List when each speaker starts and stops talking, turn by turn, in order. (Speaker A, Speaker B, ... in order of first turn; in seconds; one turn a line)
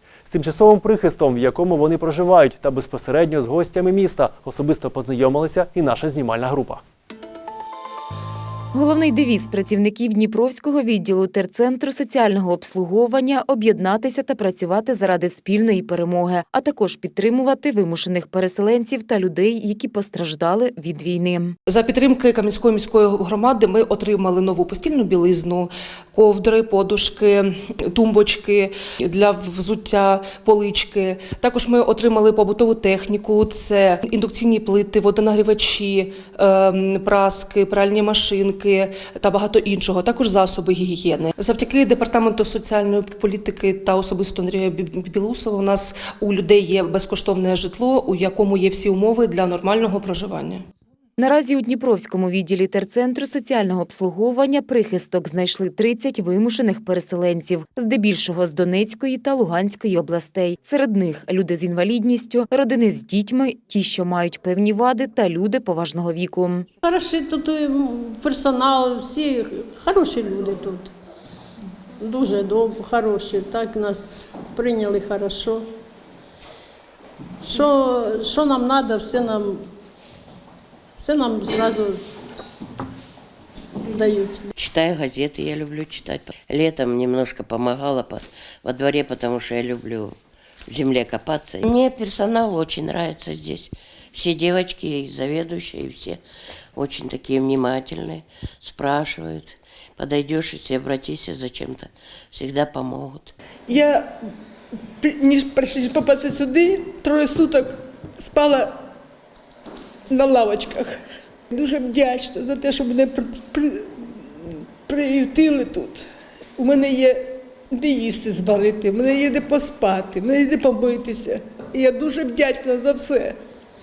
Speaker A: 0.3-6.8
Speaker B: 8.7-21.6
Speaker C: 21.7-50.6
Speaker B: 51.2-66.7
Speaker D: 66.8-70.9
Speaker D: 72.0-75.7
Speaker D: 77.4-79.7
Speaker D: 81.0-82.0
Speaker D: 83.8-84.5
Speaker E: 84.6-90.2
Speaker E: 90.7-96.2
Speaker E: 96.8-103.3
Speaker F: 103.7-104.1
Speaker F: 105.0-108.8
Speaker F: 110.1-111.0
Speaker F: 111.5-113.9
Speaker F: 114.9-116.1
Speaker F: 116.6-123.4